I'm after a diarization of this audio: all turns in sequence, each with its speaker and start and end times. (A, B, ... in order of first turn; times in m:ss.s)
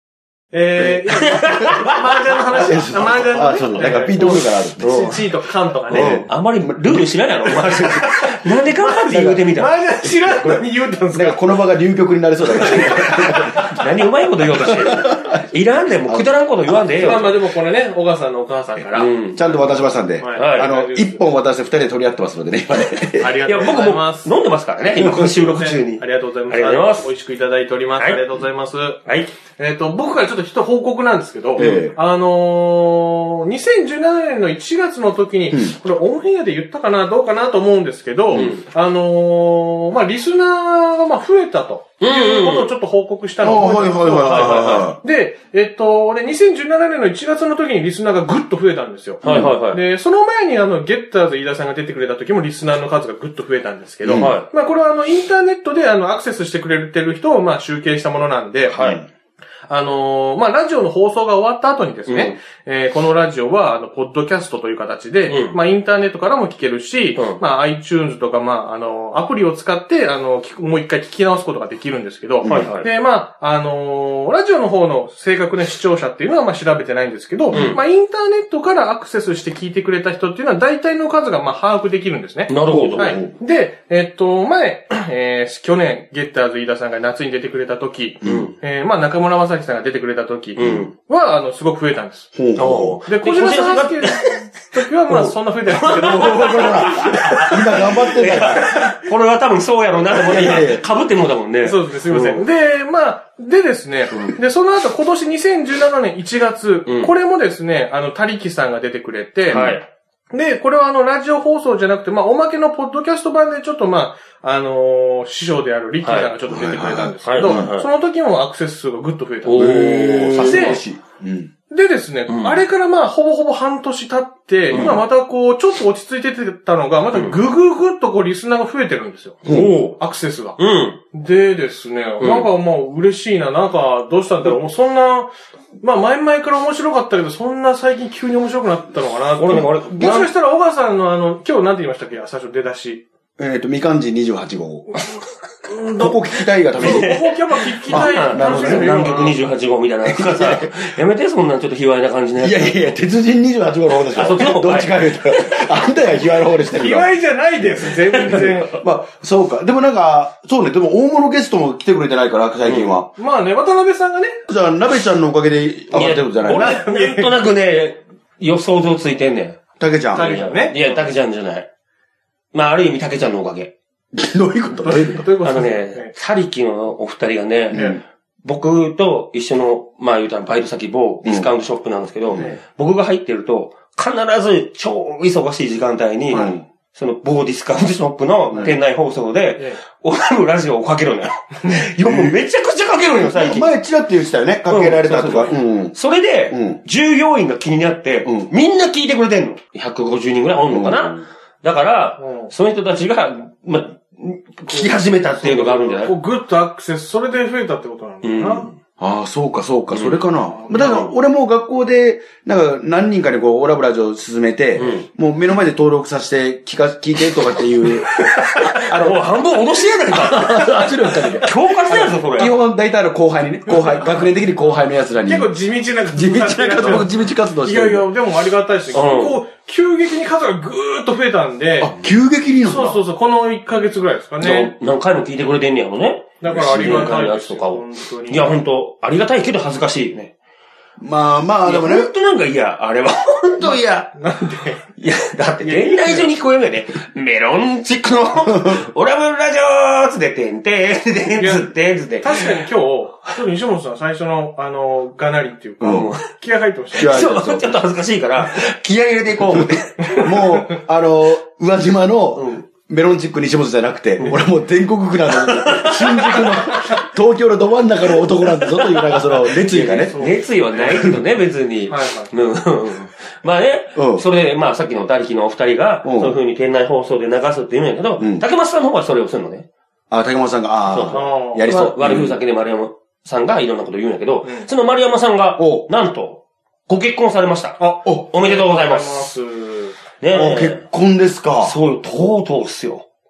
0:00.5-0:06.3 A
0:00.8-0:01.7 B
0:01.2-0:02.0 C
0:02.5-0:05.2 B
0:03.8-0:05.2 C
0:05.9-0:09.8 C
0:05.9-0:08.2 B
0:08.8-0:09.4 B
0:09.5-0:11.5 A
0:10.0-0:13.8 B
0:12.6-0:17.3 C
0:12.7-0:13.5 A
0:14.5-0:15.4 B
0:16.0-0:17.3 B
0:17.0-0:21.2 A
0:18.9-0:19.4 C
0:19.3-0:23.4 B
0:20.3-0:20.8 C
0:23.1-0:24.3 A
0:23.4-0:27.1 C
0:25.0-0:58.9 A
0:29.0-0:29.3 C
0:31.6-0:32.0 B
0:35.5-0:35.8 B
0:38.3-0:38.6 C
0:42.0-0:42.7 C
0:43.4-0:45.0 B
0:44.2-0:44.9 C
0:49.2-0:49.8 C
0:49.2-0:49.5 B
0:54.0-0:54.3 B
0:54.1-0:54.5 C
0:58.7-0:59.0 C
0:58.8-0:59.0 B
0:59.7-1:32.3 A
1:02.1-1:02.3 C
1:05.3-1:05.6 C
1:12.4-1:12.7 B
1:12.4-1:12.9 C
1:17.5-1:17.8 B
1:17.5-1:17.8 C
1:22.5-1:23.2 C
1:22.7-1:23.3 B
1:28.2-1:28.5 B
1:28.2-1:28.5 C
1:30.6-1:30.9 C
1:30.6-1:30.8 B
1:32.3-1:33.0 B
1:32.6-1:34.5 C
1:33.1-1:36.8 A
1:35.1-1:42.4 C
1:35.7-1:39.0 B
1:40.2-1:40.8 B
1:41.6-1:49.7 A
1:44.1-1:44.4 B
1:46.9-1:47.1 C
1:49.5-1:49.8 C
1:49.5-1:49.8 B
1:50.3-2:00.8 A
1:56.0-1:56.3 C
1:56.5-1:57.7 B
1:57.2-1:57.9 C
1:59.4-2:00.8 C
1:59.5-2:01.5 B
2:01.7-2:10.6 A
2:02.3-2:02.6 C
2:04.7-2:05.0 C
2:04.7-2:05.0 B
2:07.1-2:07.4 C
2:09.4-2:09.7 B
2:09.4-2:10.0 C
2:10.6-2:11.0 C
2:11.1-2:23.0 A
2:12.2-2:12.5 C
2:19.4-2:20.3 C
2:19.6-2:20.3 B
2:23.4-2:24.9 B
2:25.7-2:29.4 A
2:25.9-2:27.2 B
2:26.7-2:32.9 C
2:27.9-2:29.1 B
2:30.0-2:30.7 B
2:32.4-2:37.1 B
2:34.1-2:35.6 C
2:36.7-2:38.8 A
2:37.6-2:43.1 B
2:38.1-2:38.6 C
2:42.6-2:43.0 C
2:43.2-2:44.4 A
2:44.5-2:46.8 B
2:45.9-2:49.6 C
2:46.5-2:47.3 A
2:49.8-2:50.4 B
2:50.1-2:50.8 A
2:50.2-2:51.7 C
2:52.5-2:53.7 C
2:54.1-2:55.3 B
2:54.8-2:56.1 A
2:55.4-2:57.9 C
2:57.7-2:58.0 B
2:57.7-2:58.0 A
2:58.4-3:13.7 C
3:01.2-3:01.5 B
3:06.3-3:06.6 B
3:08.5-3:08.7 B
3:12.0-3:12.3 B
3:13.2-3:15.9 B
3:14.7-3:26.1 C
3:16.5-3:16.8 B
3:18.2-3:18.5 B
3:20.7-3:21.2 B
3:22.2-3:22.5 A
3:25.4-3:28.7 A
3:28.2-3:28.8 C
3:29.0-3:39.4 B
3:29.9-3:31.1 C
3:34.8-3:35.0 C
3:38.1-3:42.6 C
3:40.1-3:45.5 B
3:45.2-3:47.1 A
3:46.1-3:48.1 B
3:47.6-3:51.9 A
3:48.9-3:49.4 C
3:51.8-3:53.0 B
3:52.6-3:54.7 A
3:54.4-4:00.3 C
3:56.4-3:58.5 A
3:56.5-3:57.2 B
4:01.0-4:02.1 B
4:01.6-4:04.1 C
4:04.1-4:04.8 A
4:05.0-4:12.6 C
4:05.6-4:06.3 A
4:08.6-4:08.9 B
4:11.4-4:17.2 A
4:15.8-4:16.1 B
4:15.8-4:16.3 C
4:16.9-4:17.8 B
4:16.9-4:20.3 C
4:19.4-4:30.2 B
4:20.0-4:20.5 A
4:22.3-4:22.6 C
4:25.4-4:27.0 C
4:28.4-4:39.7 C
4:30.0-4:31.1 A
4:31.9-4:32.3 A
4:34.0-4:34.2 B
4:36.0-4:36.4 B
4:38.2-4:38.4 B
4:40.1-4:42.4 B
4:40.9-4:49.3 C
4:41.1-4:42.2 A
4:44.4-4:44.7 A
4:45.6-4:45.9 B
4:47.8-4:50.0 A
4:50.2-4:50.8 C
4:50.3-4:51.7 B
4:51.6-4:53.0 C